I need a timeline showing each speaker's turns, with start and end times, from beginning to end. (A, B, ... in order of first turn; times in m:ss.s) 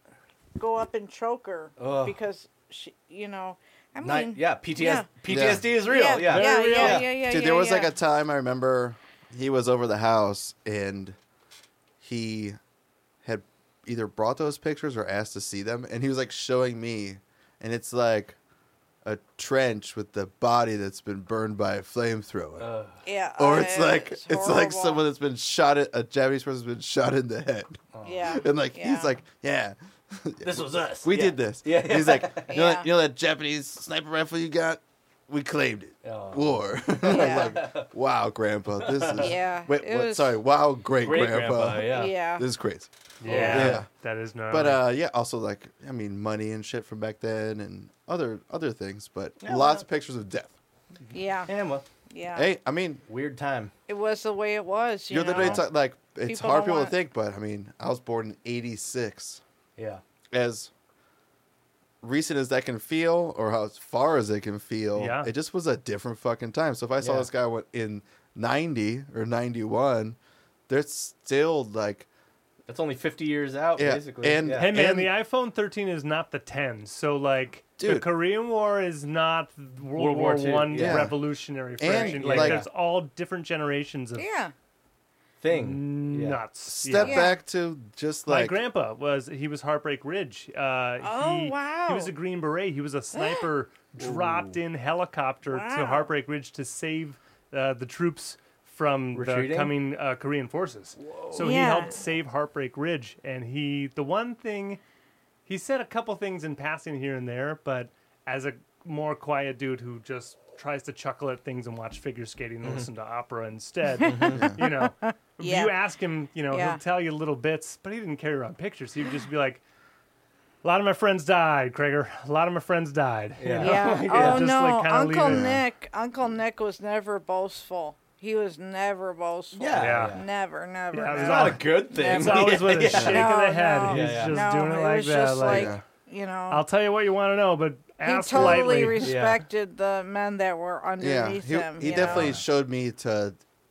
0:00.6-0:07.9 A
0:01.8-0:02.2 B
0:04.0-0:07.1 B
0:05.3-0:05.7 C
0:06.2-0:07.0 D
0:07.1-0:11.2 C
0:12.0-0:12.6 C
0:13.2-0:18.4 C
0:19.0-0:22.7 C
0:22.6-0:23.0 B
0:23.0-0:25.0 A
0:23.4-0:43.9 C
0:27.9-0:28.3 B
0:28.0-0:29.2 A
0:30.4-0:32.6 B
0:32.5-0:32.9 A
0:36.0-0:37.9 B
0:37.1-0:37.6 A
0:38.8-0:39.3 B
0:39.2-0:40.4 A
0:41.0-0:42.1 B
0:41.9-0:42.5 A
0:43.2-0:44.8 D
0:43.2-0:43.8 B
0:44.5-0:50.6 C
0:49.4-0:49.8 B
0:51.1-0:51.5 A
0:51.5-0:51.8 B
0:52.1-0:52.5 A
0:52.4-0:53.0 C
0:53.1-0:53.7 B
0:53.9-0:55.7 A
0:55.1-0:59.4 C
0:56.2-0:57.0 A
0:59.8-1:00.0 B
1:00.3-1:00.7 C
1:02.0-1:10.2 C
1:05.0-1:05.3 D
1:07.0-1:07.3 B
1:10.7-1:12.1 C
1:12.7-1:14.7 B
1:13.8-1:15.1 C
1:14.6-1:24.3 D
1:17.8-1:18.1 C
1:20.0-1:21.1 B
1:20.8-1:21.2 C
1:21.8-1:22.6 C
1:22.0-1:22.7 B
1:24.2-1:24.5 A
1:25.4-1:26.4 B
1:25.5-1:27.3 D
1:26.7-1:28.6 C
1:27.0-1:27.4 A
1:28.3-1:44.8 D
1:31.0-1:32.1 A
1:33.1-1:33.5 A
1:34.0-1:34.6 B
1:35.5-1:36.1 A
1:39.1-1:39.7 B
1:41.0-1:41.8 B
1:41.3-1:42.0 A
1:45.5-1:59.6 D
1:54.0-1:55.8 A
1:54.0-1:54.5 B
1:56.5-1:56.8 A
2:00.6-2:05.6 D
2:03.4-2:04.5 B
2:03.6-2:16.6 A
2:05.2-2:05.6 C
2:09.5-2:10.3 B
2:09.7-2:10.2 D
2:10.9-2:15.8 D
2:11.2-2:13.3 B
2:13.9-2:14.4 B
2:15.4-2:15.8 C
2:16.5-2:19.1 D
2:18.0-2:22.4 A
2:18.4-2:18.7 C
2:19.0-2:19.4 B
2:21.0-2:23.4 C
2:21.8-2:22.4 B